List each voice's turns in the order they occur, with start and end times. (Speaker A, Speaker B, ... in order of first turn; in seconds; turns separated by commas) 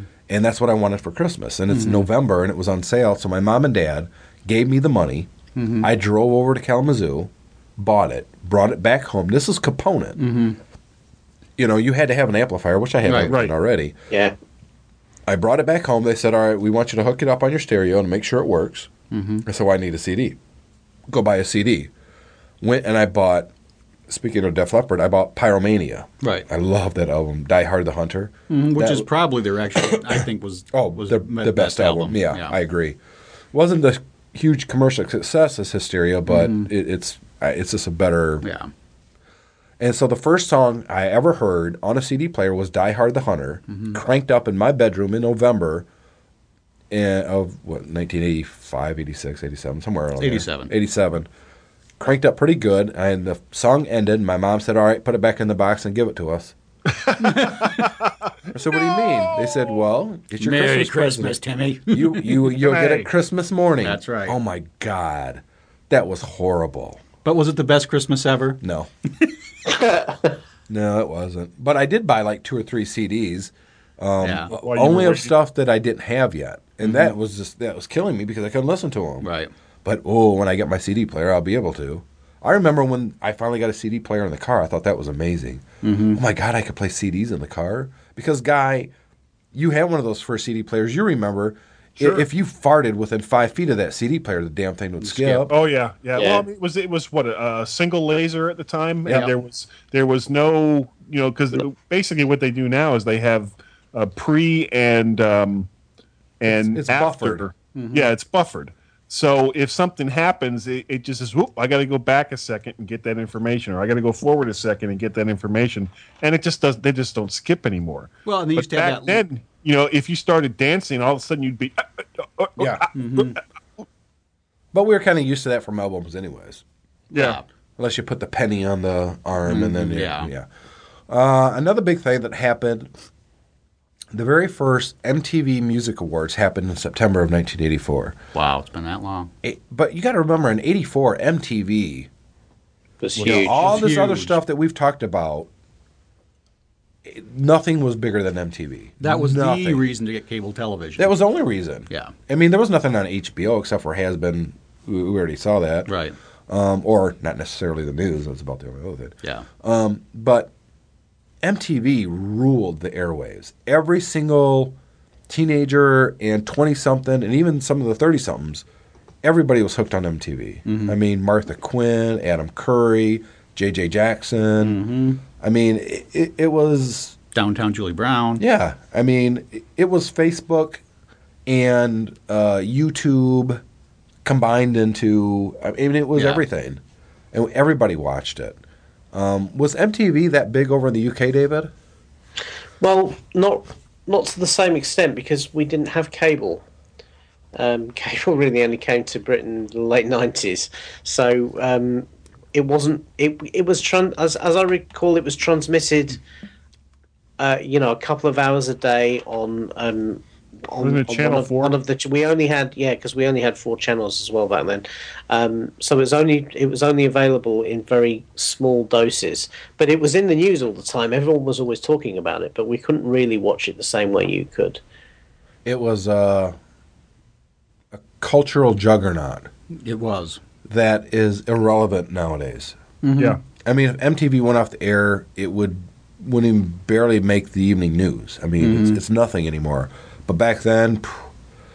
Speaker A: 0.3-5.3, Speaker B: 1.7-2.1, Speaker B: 5.6-5.9, Speaker A: 5.8-10.2, Speaker B: 10.2-10.6, Speaker A: 11.6-13.9, Speaker B: 13.1-13.3, Speaker C: 13.3-13.5, Speaker A: 15.3-18.9, Speaker B: 19.1-19.4, Speaker A: 19.4-20.4, Speaker A: 21.1-21.9, Speaker A: 22.6-23.5, Speaker A: 24.1-29.1, Speaker B: 28.5-32.6, Speaker A: 29.8-30.2, Speaker A: 30.7-33.0, Speaker A: 33.5-38.5, Speaker B: 36.3-36.7, Speaker B: 38.4-38.7, Speaker A: 39.8-45.9, Speaker B: 43.7-44.0, Speaker A: 46.9-51.3, Speaker B: 50.2-50.7, Speaker A: 52.0-56.6, Speaker B: 57.2-57.8, Speaker A: 58.5-67.0, Speaker B: 60.4-62.9, Speaker C: 62.7-63.1, Speaker B: 63.8-64.4, Speaker B: 67.2-68.6, Speaker A: 68.6-68.9, Speaker D: 69.8-70.3, Speaker A: 70.7-79.3, Speaker B: 74.2-74.5, Speaker C: 74.5-75.3, Speaker B: 76.8-77.1, Speaker B: 79.2-79.5, Speaker A: 79.8-88.9, Speaker B: 85.8-86.2, Speaker A: 89.5-95.5, Speaker C: 92.0-92.2, Speaker B: 95.0-95.5, Speaker C: 95.5-105.7, Speaker D: 96.2-96.5, Speaker C: 106.4-123.3, Speaker A: 106.5-107.5, Speaker B: 107.8-108.1, Speaker B: 118.3-119.2, Speaker A: 122.6-122.9, Speaker B: 123.0-123.4, Speaker A: 124.7-126.6, Speaker C: 127.1-127.4, Speaker B: 127.2-127.4, Speaker A: 127.8-130.5, Speaker B: 129.5-130.3, Speaker A: 131.1-132.9, Speaker A: 134.1-138.2, Speaker B: 138.3-139.3, Speaker A: 139.4-142.1, Speaker D: 143.0-143.7, Speaker A: 143.2-145.5, Speaker B: 143.2-144.4, Speaker A: 147.1-149.8, Speaker B: 149.0-151.2, Speaker A: 151.0-155.9, Speaker B: 155.9-156.2, Speaker A: 156.5-160.5, Speaker A: 161.4-164.8, Speaker A: 165.3-168.7, Speaker A: 169.2-174.8, Speaker B: 170.7-171.0, Speaker B: 174.6-175.2, Speaker A: 175.4-177.2, Speaker B: 177.3-178.4, Speaker A: 178.4-180.8, Speaker A: 181.5-183.6, Speaker A: 184.2-186.8, Speaker B: 186.2-186.4, Speaker A: 187.3-188.6, Speaker A: 189.1-191.7, Speaker D: 192.8-196.7, Speaker D: 197.6-206.2, Speaker D: 207.4-224.8, Speaker C: 210.8-211.8, Speaker A: 225.7-226.6, Speaker A: 227.9-229.5, Speaker B: 229.8-230.4, Speaker A: 230.7-232.8, Speaker B: 233.0-233.4, Speaker A: 233.6-241.3, Speaker B: 238.6-239.0